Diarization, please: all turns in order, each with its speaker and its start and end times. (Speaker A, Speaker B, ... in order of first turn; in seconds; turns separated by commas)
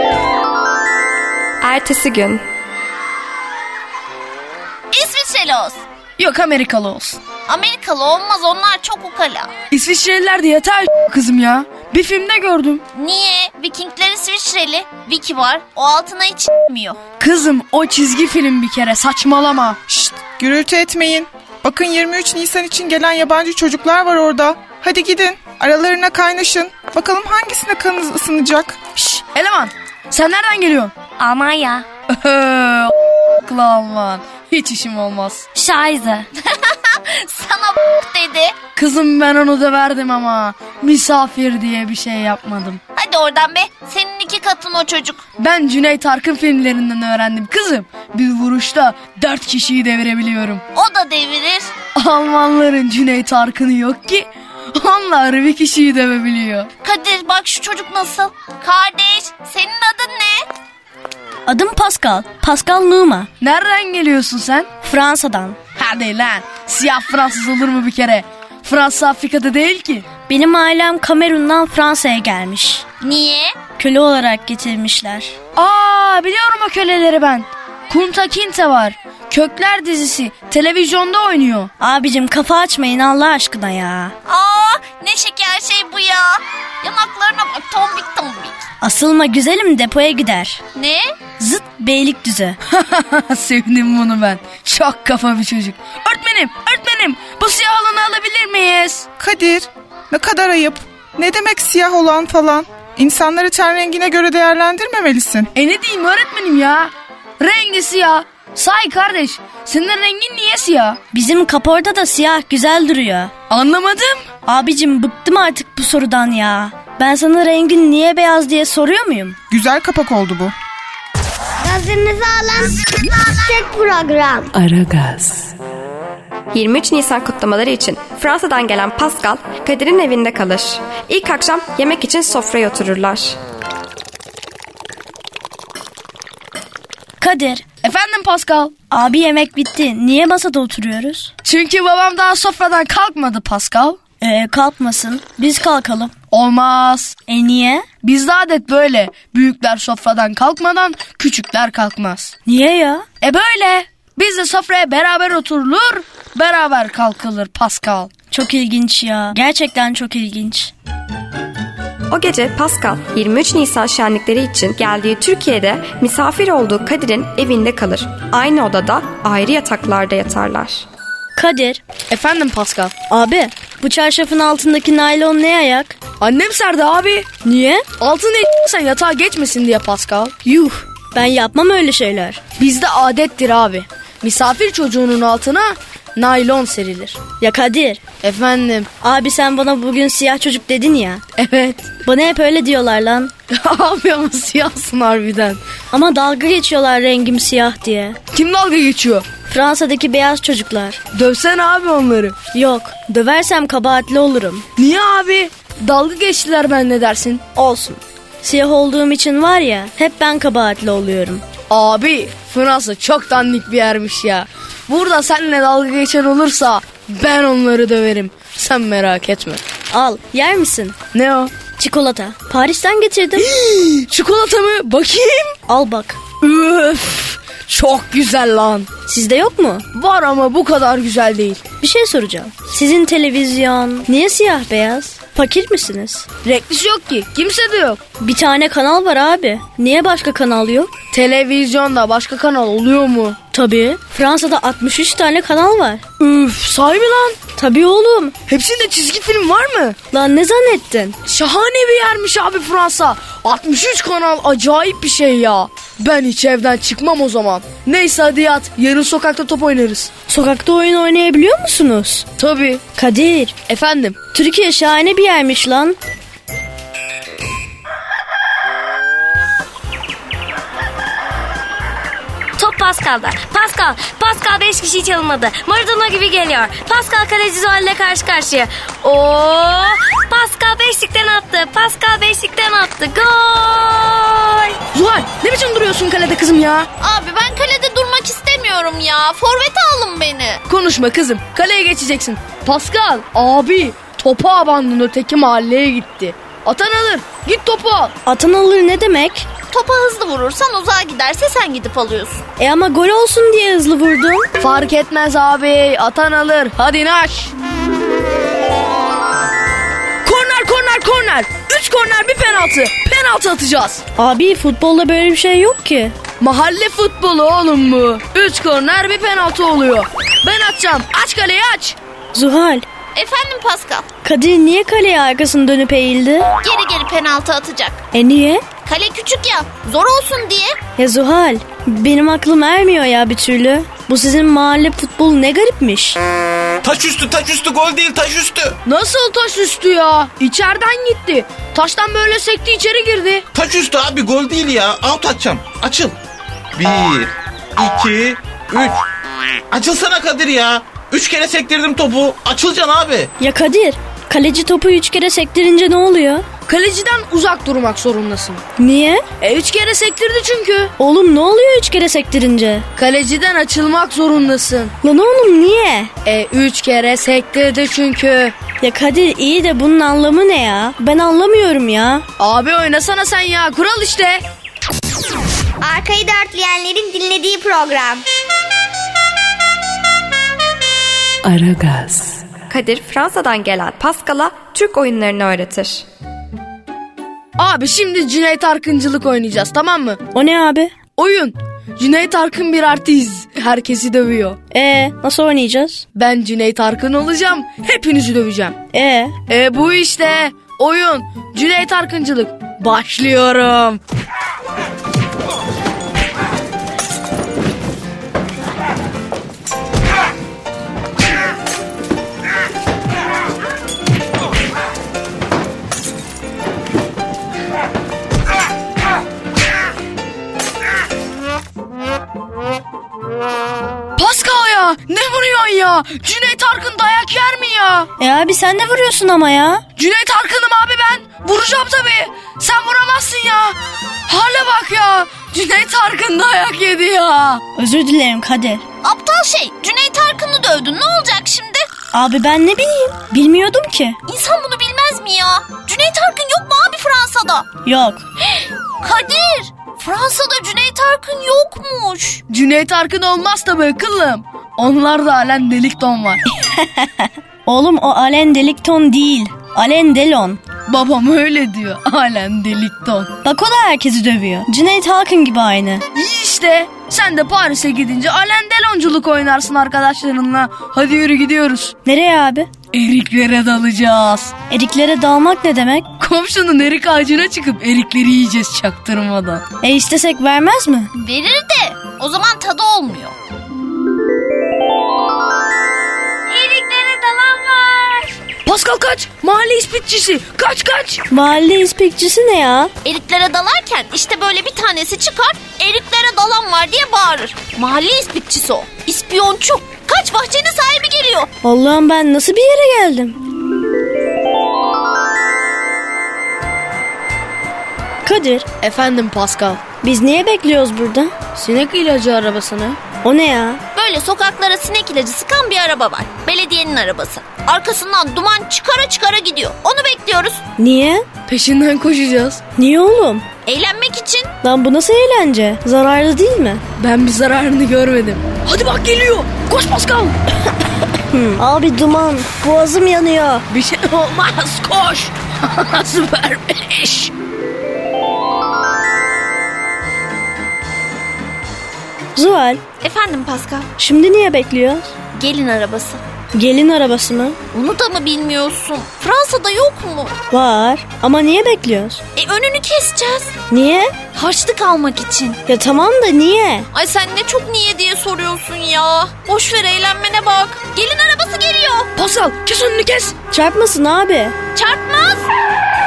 Speaker A: 1.6-2.4, Speaker B: 4.9-5.8, Speaker C: 6.2-7.2, Speaker B: 7.5-9.5, Speaker C: 9.7-12.8, Speaker B: 12.9-17.0, Speaker C: 17.2-19.8, Speaker D: 19.9-28.8, Speaker C: 29.0-30.9, Speaker E: 31.2-31.8, Speaker C: 32.1-35.5, Speaker E: 35.5-36.2, Speaker B: 36.4-38.5, Speaker C: 38.7-42.8, Speaker B: 43.0-45.2, Speaker C: 45.4-50.6, Speaker B: 50.7-51.7, Speaker C: 52.0-56.7, Speaker B: 56.8-60.4, Speaker F: 61.5-63.3, Speaker C: 63.4-64.7, Speaker F: 64.8-65.6, Speaker C: 65.7-70.1, Speaker F: 70.3-72.8, Speaker B: 73.0-73.5, Speaker F: 73.8-75.3, Speaker C: 75.5-81.7, Speaker F: 81.8-84.1, Speaker B: 84.3-88.6, Speaker F: 88.8-90.6, Speaker B: 90.7-91.1, Speaker F: 91.4-92.6, Speaker C: 92.7-99.0, Speaker D: 99.2-105.5, Speaker C: 105.5-111.0, Speaker F: 111.1-113.3, Speaker C: 113.5-114.2, Speaker F: 114.5-119.4, Speaker D: 119.5-120.5, Speaker G: 121.6-122.8, Speaker G: 123.4-124.5, Speaker H: 124.5-125.5, Speaker A: 126.5-133.3, Speaker F: 137.2-137.6, Speaker C: 137.8-138.7, Speaker F: 138.9-141.3, Speaker C: 141.4-144.0, Speaker F: 144.2-146.1, Speaker C: 146.3-147.2, Speaker F: 147.3-147.9, Speaker C: 148.0-152.3, Speaker F: 152.4-153.1, Speaker C: 153.2-158.1, Speaker F: 158.3-160.7, Speaker A: 162.1-170.8, Speaker F: 171.3-171.8, Speaker C: 172.1-172.9, Speaker F: 173.1-175.9, Speaker C: 176.2-177.3, Speaker F: 177.4-177.9, Speaker C: 178.0-180.3, Speaker F: 180.4-182.4, Speaker C: 182.6-187.2, Speaker F: 187.4-188.0, Speaker C: 188.2-188.9, Speaker F: 189.0-191.2, Speaker C: 191.3-191.9, Speaker F: 192.0-193.3, Speaker C: 193.5-195.6, Speaker F: 195.9-198.2, Speaker C: 198.3-199.3, Speaker F: 199.5-201.0, Speaker C: 201.1-202.4, Speaker F: 202.5-204.7, Speaker C: 204.8-207.4, Speaker F: 207.6-211.4, Speaker C: 211.7-219.6, Speaker F: 219.9-221.0, Speaker C: 221.1-221.5, Speaker F: 221.8-223.5, Speaker C: 223.3-225.6, Speaker F: 225.7-226.2, Speaker C: 226.4-228.9, Speaker F: 229.1-229.8, Speaker C: 229.9-231.6, Speaker F: 231.8-236.2, Speaker C: 236.4-238.0, Speaker F: 238.2-240.9, Speaker C: 241.1-243.4, Speaker F: 243.5-246.1, Speaker C: 246.2-247.4, Speaker F: 247.5-248.3, Speaker C: 248.4-249.9, Speaker F: 250.1-251.2, Speaker C: 251.2-260.1, Speaker F: 260.3-262.3, Speaker C: 262.4-262.8, Speaker F: 262.9-263.6, Speaker C: 263.7-264.1, Speaker F: 264.3-266.0, Speaker E: 272.6-284.6, Speaker C: 284.9-286.9, Speaker B: 287.0-290.6, Speaker C: 290.7-298.1, Speaker F: 298.2-299.5, Speaker B: 299.7-302.4, Speaker F: 302.6-304.5, Speaker C: 304.6-307.5, Speaker C: 310.2-314.0, Speaker F: 314.1-316.2, Speaker C: 316.4-322.0, Speaker F: 322.3-322.9, Speaker B: 323.1-324.1, Speaker F: 324.2-326.5, Speaker B: 326.6-328.0, Speaker F: 328.1-328.6, Speaker B: 328.8-330.8, Speaker F: 331.0-336.2, Speaker I: 336.8-338.8, Speaker C: 338.9-343.4, Speaker I: 343.5-346.1, Speaker I: 346.8-349.0, Speaker I: 349.7-353.3, Speaker F: 353.4-356.4, Speaker C: 356.7-358.6, Speaker F: 358.8-359.2, Speaker C: 359.4-360.9, Speaker F: 361.0-362.9, Speaker C: 362.9-364.9, Speaker F: 365.0-366.1, Speaker C: 366.2-368.5, Speaker F: 368.8-372.2, Speaker C: 372.4-374.4, Speaker G: 375.8-378.2, Speaker H: 381.4-382.4, Speaker A: 382.7-386.1, Speaker C: 387.6-390.2, Speaker F: 390.3-390.9, Speaker C: 391.2-394.6, Speaker F: 394.7-396.0, Speaker C: 396.1-398.8, Speaker F: 398.9-399.4, Speaker C: 399.5-404.0, Speaker C: 424.1-428.1, Speaker F: 428.2-429.8, Speaker C: 429.9-433.8, Speaker C: 434.3-437.6, Speaker F: 437.7-438.8, Speaker B: 439.0-441.9, Speaker F: 442.1-444.2, Speaker B: 444.2-447.6, Speaker F: 447.8-448.2, Speaker B: 449.0-452.4, Speaker C: 452.5-456.4, Speaker F: 457.6-460.6, Speaker C: 460.9-463.3, Speaker F: 463.4-466.0, Speaker C: 466.1-471.9, Speaker F: 472.0-472.7, Speaker C: 472.9-474.5, Speaker F: 474.7-476.1, Speaker C: 476.2-479.6, Speaker F: 479.8-481.1, Speaker B: 481.1-483.3, Speaker B: 486.5-488.3, Speaker C: 488.6-491.2, Speaker F: 491.3-492.9, Speaker B: 493.0-501.5, Speaker F: 501.6-503.4, Speaker F: 508.2-508.7, Speaker C: 508.8-509.8, Speaker F: 510.0-511.4, Speaker C: 511.5-513.0, Speaker F: 513.2-513.8, Speaker B: 513.9-520.6, Speaker F: 520.8-521.3, Speaker C: 521.5-522.6, Speaker F: 522.8-523.5, Speaker B: 523.6-524.5, Speaker F: 524.6-526.8, Speaker C: 527.0-530.3, Speaker F: 531.3-533.6, Speaker C: 533.7-537.3, Speaker F: 542.3-542.8, Speaker B: 543.0-543.9, Speaker F: 544.0-545.1, Speaker B: 545.3-546.2, Speaker F: 546.5-547.6, Speaker B: 547.7-550.4, Speaker F: 550.5-552.2, Speaker B: 552.4-553.5, Speaker F: 553.7-554.1, Speaker B: 554.3-555.6, Speaker F: 555.7-556.9, Speaker B: 556.9-562.1, Speaker C: 562.1-563.4, Speaker F: 563.5-564.5, Speaker B: 564.7-565.5